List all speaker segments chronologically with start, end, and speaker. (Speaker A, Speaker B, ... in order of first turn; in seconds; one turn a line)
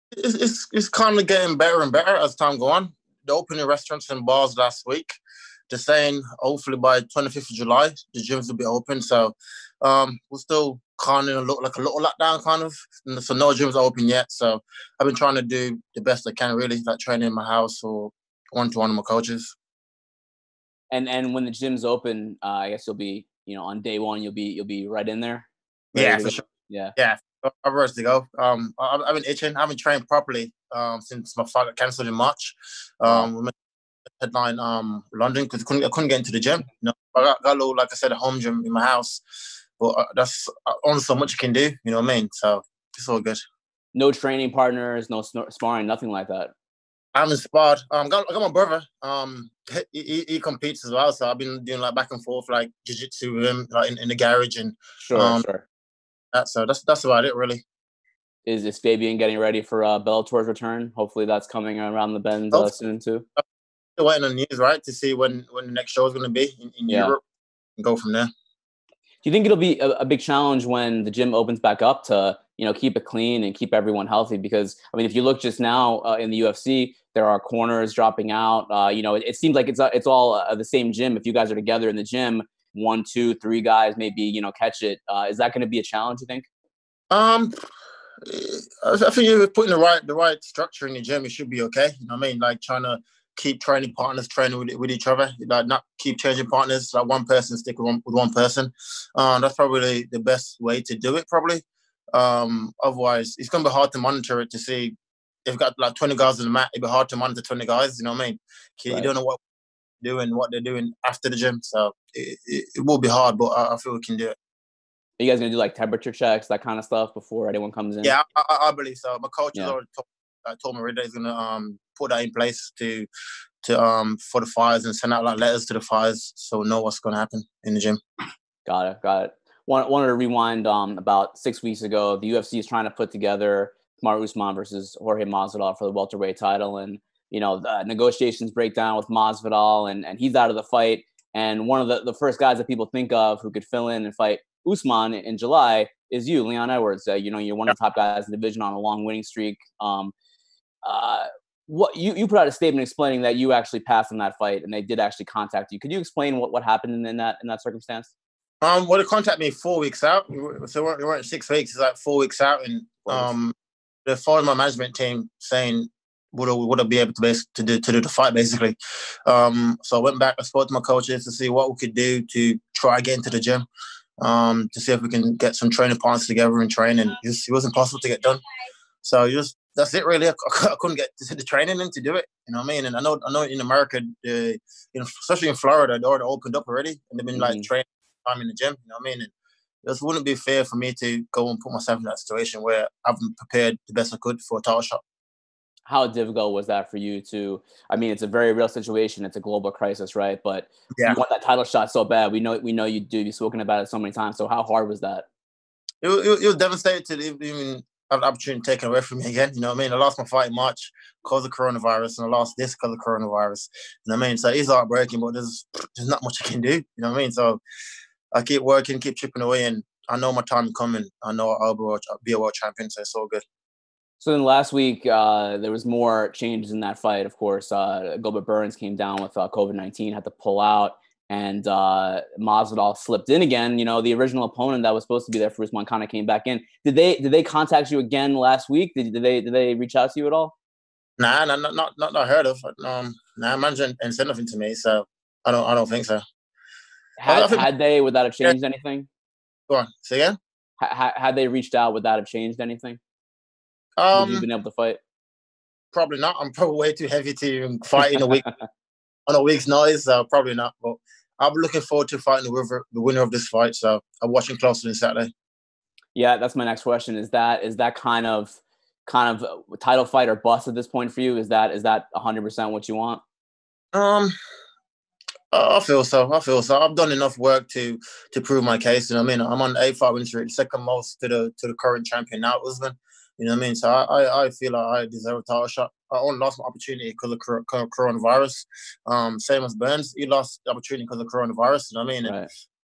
Speaker A: 0.2-19.5
Speaker B: 20.9-26.9
Speaker A: 25.9-26.4
Speaker A: 27.0-33.5
Speaker A: 34.2-39.2
Speaker A: 39.8-43.4
Speaker B: 43.9-46.5
Speaker A: 47.1-55.4
Speaker B: 55.0-55.7
Speaker A: 56.3-57.6
Speaker B: 58.5-63.2
Speaker A: 64.0-67.2
Speaker B: 66.9-67.2
Speaker A: 67.8-68.3
Speaker B: 69.2-86.5
Speaker A: 87.1-87.5
Speaker A: 88.3-104.9
Speaker A: 105.5-109.4
Speaker A: 110.0-114.4
Speaker B: 115.2-118.2
Speaker A: 118.0-123.1
Speaker A: 123.6-128.0
Speaker B: 128.7-150.1
Speaker B: 150.8-158.1
Speaker A: 158.6-163.5
Speaker B: 163.1-163.3
Speaker A: 164.1-173.7
Speaker A: 174.2-178.4
Speaker A: 179.0-189.3
Speaker B: 187.3-187.7
Speaker A: 189.8-195.0
Speaker B: 195.9-205.3
Speaker A: 200.9-201.2
Speaker A: 206.0-217.6
Speaker A: 218.3-223.4
Speaker B: 224.2-240.5
Speaker A: 241.2-246.2
Speaker B: 247.2-249.1
Speaker A: 247.3-247.7
Speaker A: 249.7-250.3
Speaker B: 250.8-253.0
Speaker A: 254.0-254.5
Speaker B: 254.1-255.0
Speaker A: 255.9-258.4
Speaker A: 259.3-265.3
Speaker B: 266.1-273.2
Speaker A: 273.9-274.3
Speaker A: 275.5-292.4